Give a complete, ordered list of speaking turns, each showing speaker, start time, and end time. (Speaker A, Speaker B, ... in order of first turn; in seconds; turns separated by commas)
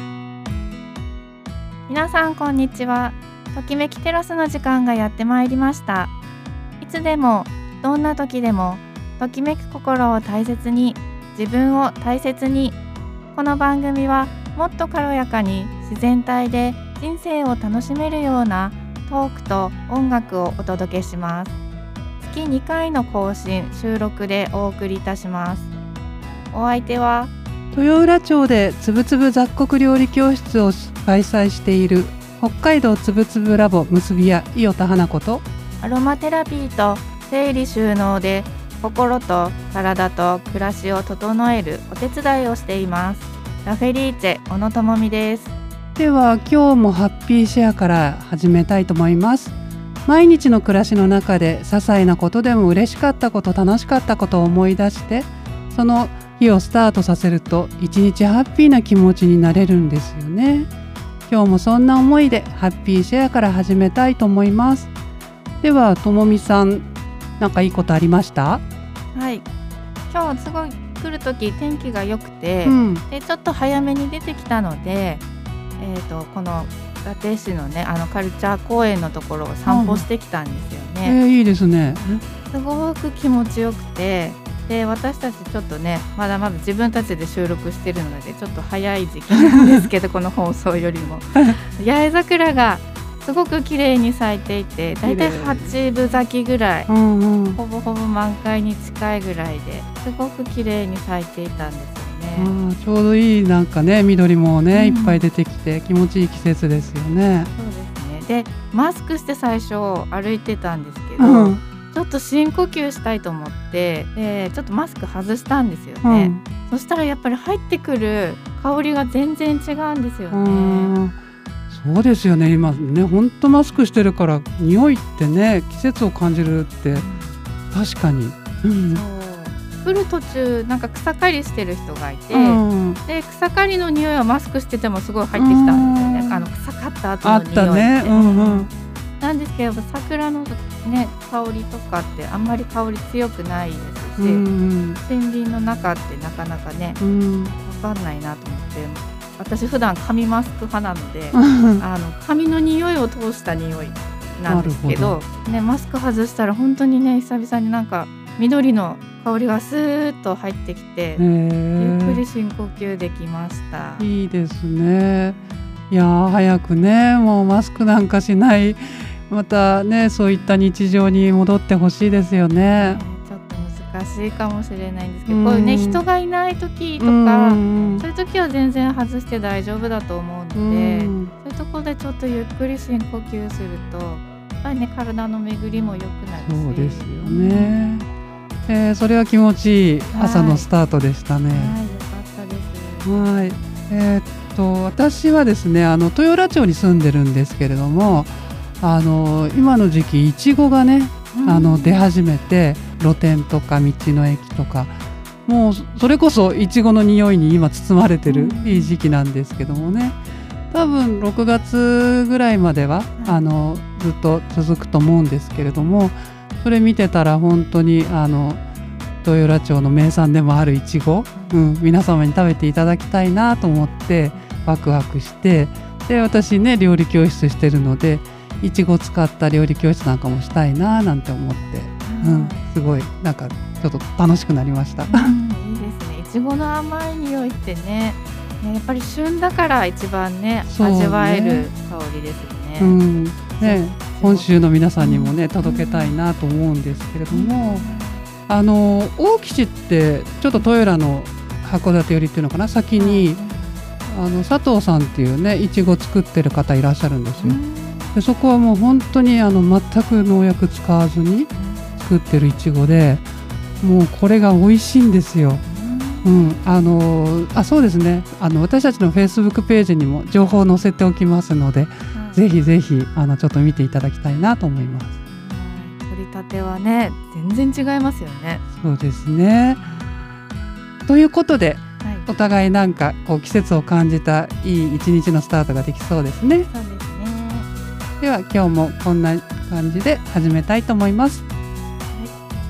Speaker A: 1.9-6.1, Speaker A: 6.8-12.8, Speaker A: 13.3-21.6, Speaker A: 22.2-25.7, Speaker A: 26.5-27.3, Speaker B: 27.7-35.4, Speaker A: 35.8-45.5, Speaker B: 46.0-60.7, Speaker B: 61.3-64.9, Speaker B: 65.6-66.9, Speaker B: 67.4-68.6, Speaker A: 69.2-69.5, Speaker A: 70.1-75.2, Speaker B: 72.7-73.0, Speaker A: 75.8-81.2, Speaker B: 79.7-80.1, Speaker B: 81.0-82.2, Speaker A: 82.5-96.9, Speaker B: 89.4-89.8, Speaker B: 95.0-95.8, Speaker B: 96.9-97.6, Speaker A: 97.5-102.5, Speaker B: 102.4-107.5, Speaker A: 104.7-105.2, Speaker A: 107.5-120.9, Speaker B: 111.2-111.6, Speaker B: 116.0-116.4, Speaker B: 120.3-121.2, Speaker B: 121.7-127.1, Speaker A: 126.9-127.3, Speaker B: 127.7-129.0, Speaker A: 128.9-138.7, Speaker B: 132.3-133.0, Speaker B: 135.4-136.5, Speaker B: 137.2-138.7, Speaker A: 139.2-144.4, Speaker B: 144.2-145.0, Speaker A: 145.0-147.0, Speaker B: 147.0-147.6, Speaker A: 147.6-161.2, Speaker B: 151.3-151.8, Speaker B: 154.5-155.2, Speaker B: 161.2-162.2, Speaker A: 161.8-164.1, Speaker B: 164.0-173.0, Speaker A: 172.8-188.0, Speaker B: 175.3-176.0, Speaker B: 177.0-178.1, Speaker B: 180.6-181.3, Speaker B: 186.4-188.1, Speaker B: 188.7-191.8, Speaker A: 190.1-190.7, Speaker A: 191.5-193.2, Speaker B: 193.1-204.9, Speaker A: 201.3-202.1, Speaker B: 205.5-210.2, Speaker A: 208.3-208.9, Speaker B: 210.7-218.6, Speaker B: 219.2-235.3, Speaker A: 221.3-221.6, Speaker A: 232.0-232.7, Speaker A: 235.1-243.0, Speaker B: 240.7-241.7, Speaker B: 242.8-247.9, Speaker A: 243.6-246.2, Speaker A: 247.3-248.2, Speaker B: 248.5-253.4, Speaker A: 253.0-253.8, Speaker B: 254.1-257.6, Speaker A: 257.4-258.2, Speaker B: 258.1-263.2, Speaker A: 261.6-261.9, Speaker B: 263.8-265.6, Speaker A: 265.7-266.4, Speaker B: 266.2-275.2, Speaker A: 272.1-272.4, Speaker A: 275.3-278.6, Speaker B: 278.7-279.8, Speaker A: 279.9-280.1, Speaker B: 281.1-286.7, Speaker A: 282.0-282.3, Speaker A: 286.7-287.7, Speaker B: 288.2-291.4